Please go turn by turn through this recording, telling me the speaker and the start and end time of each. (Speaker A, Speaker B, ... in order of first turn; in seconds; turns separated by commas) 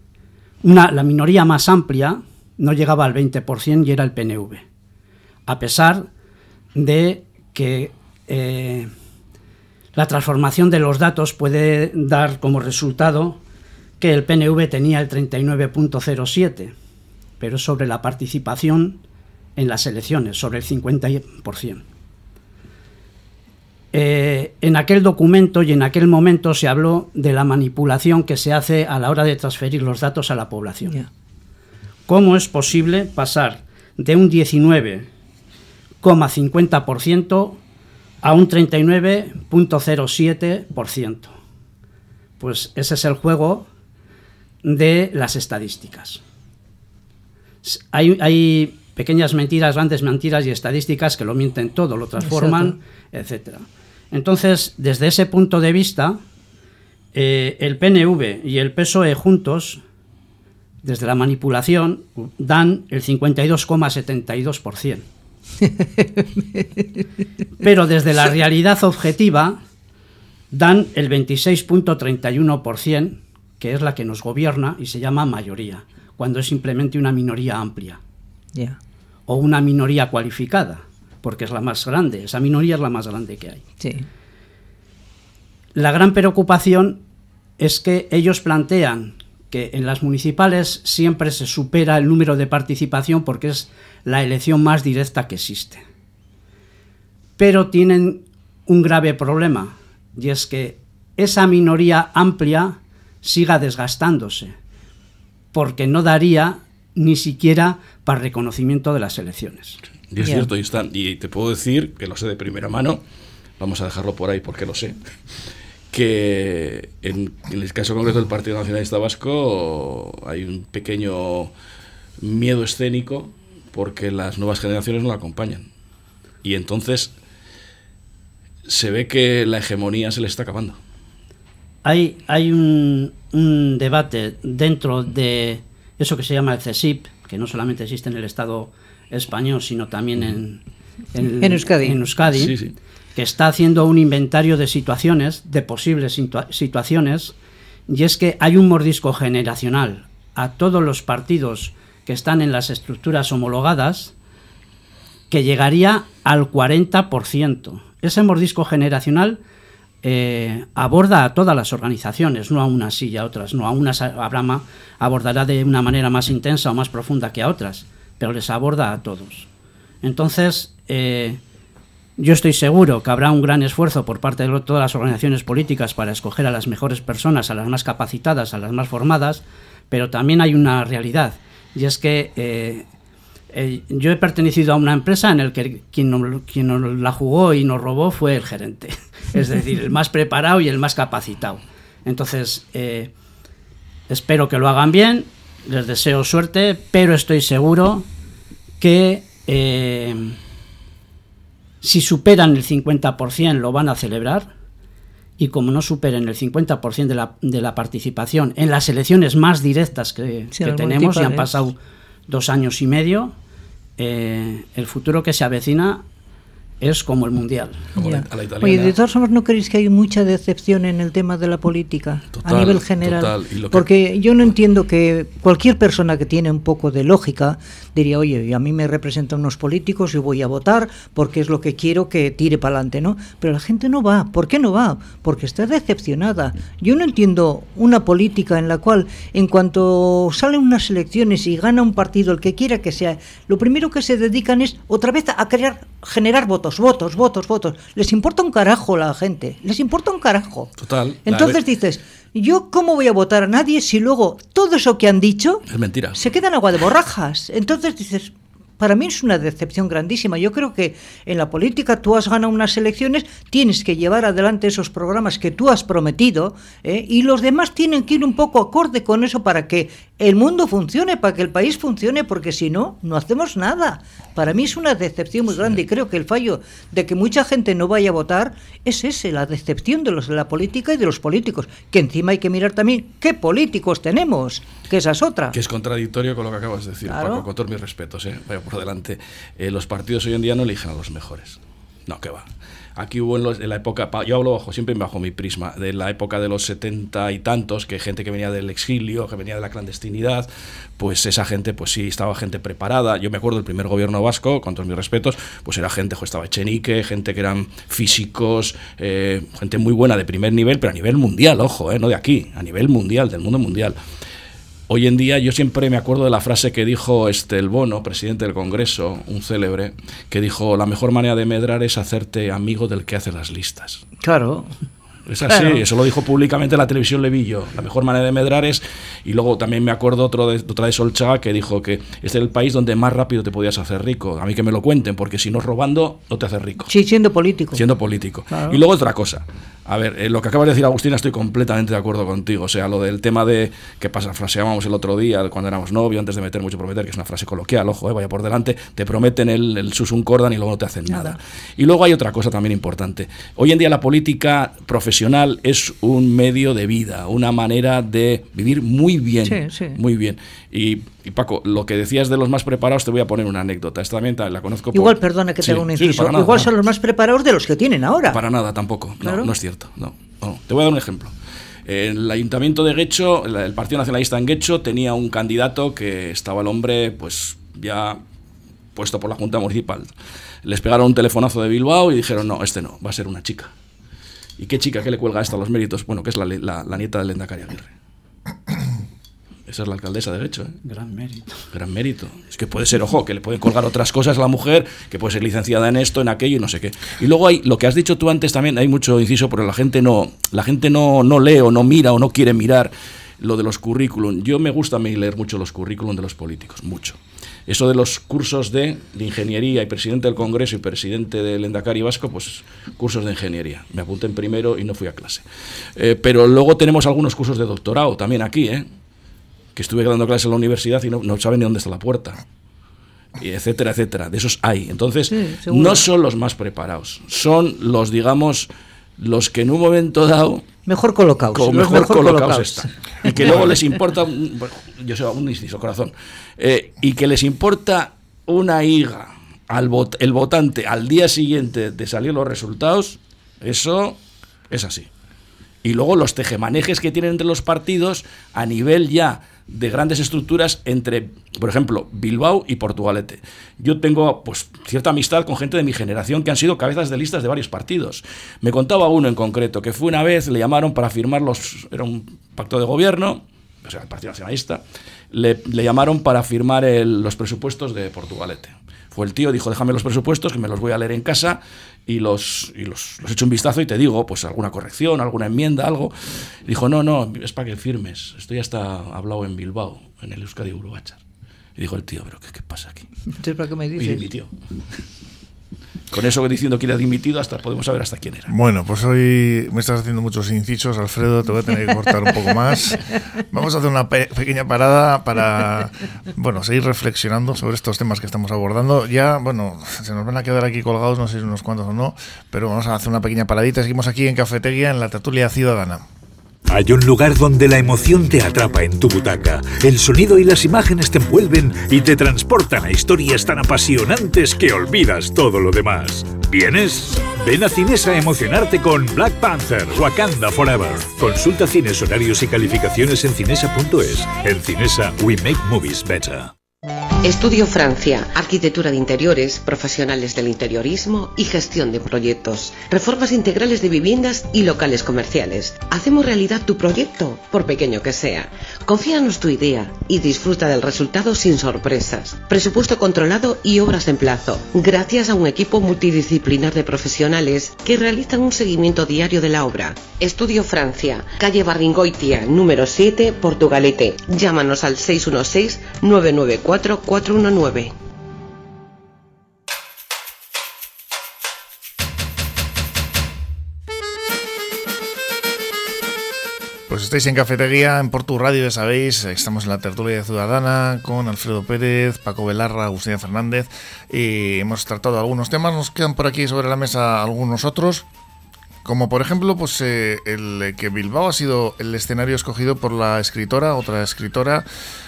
Speaker A: 0.6-4.6, Speaker A: 5.5-6.1, Speaker A: 6.8-8.9, Speaker A: 9.9-13.4, Speaker A: 14.0-16.7, Speaker A: 17.4-19.0, Speaker A: 19.6-21.8, Speaker A: 23.9-31.0, Speaker A: 32.1-35.1, Speaker A: 36.0-37.6, Speaker A: 38.2-41.3, Speaker A: 42.4-43.7, Speaker A: 44.6-46.2, Speaker A: 47.6-56.2, Speaker B: 52.2-52.8, Speaker A: 57.1-59.8, Speaker A: 60.8-65.0, Speaker B: 65.6-66.8, Speaker A: 67.6-69.6, Speaker A: 70.5-78.0, Speaker A: 79.3-83.6, Speaker B: 83.8-84.0, Speaker A: 85.7-87.0, Speaker A: 87.6-95.8, Speaker A: 97.4-104.5, Speaker A: 105.5-109.8, Speaker C: 110.1-113.0, Speaker B: 110.2-110.5, Speaker C: 113.6-115.0, Speaker C: 115.9-121.5, Speaker C: 122.2-125.7, Speaker C: 126.4-127.1, Speaker C: 128.7-130.8, Speaker A: 131.8-140.6, Speaker A: 141.1-142.6, Speaker B: 141.4-142.0, Speaker C: 142.3-142.7, Speaker A: 143.2-147.3, Speaker A: 147.9-154.1, Speaker A: 155.3-159.4, Speaker A: 160.0-169.5, Speaker A: 170.0-171.4, Speaker A: 172.2-182.8, Speaker A: 183.5-193.1, Speaker A: 194.1-198.1, Speaker A: 198.8-200.4, Speaker A: 201.8-204.5, Speaker A: 205.4-211.8, Speaker B: 210.5-211.6, Speaker A: 212.3-213.3, Speaker A: 214.0-216.0, Speaker A: 216.8-217.9, Speaker C: 217.9-218.9, Speaker B: 218.0-250.7, Speaker C: 222.3-223.9, Speaker C: 250.8-251.6, Speaker B: 251.2-255.6, Speaker C: 255.7-256.3, Speaker B: 256.1-285.6, Speaker C: 285.5-314.0, Speaker B: 287.1-287.4, Speaker C: 314.9-324.0, Speaker B: 324.2-324.7, Speaker C: 325.3-336.9, Speaker B: 325.5-325.8, Speaker B: 336.9-337.8, Speaker C: 337.7-366.7, Speaker B: 338.5-338.8, Speaker B: 351.1-351.4, Speaker B: 359.4-360.0, Speaker B: 364.9-368.4, Speaker C: 368.3-371.3, Speaker B: 369.2-369.5, Speaker C: 371.9-378.2, Speaker C: 378.9-383.7, Speaker C: 384.6-387.9, Speaker C: 389.7-390.8, Speaker A: 390.8-391.6, Speaker C: 391.7-418.9, Speaker C: 419.8-422.4, Speaker C: 423.4-430.6, Speaker B: 425.3-426.1, Speaker B: 430.9-433.8, Speaker C: 431.5-444.2, Speaker C: 444.7-445.1, Speaker C: 445.8-476.1, Speaker C: 476.6-481.2, Speaker C: 481.8-483.1, Speaker B: 483.4-484.2, Speaker C: 484.0-484.5, Speaker C: 486.1-488.5, Speaker D: 488.5-506.0, Speaker E: 506.7-526.5, Speaker F: 527.2-557.9, Speaker D: 566.9-578.0, Speaker D: 578.8-584.6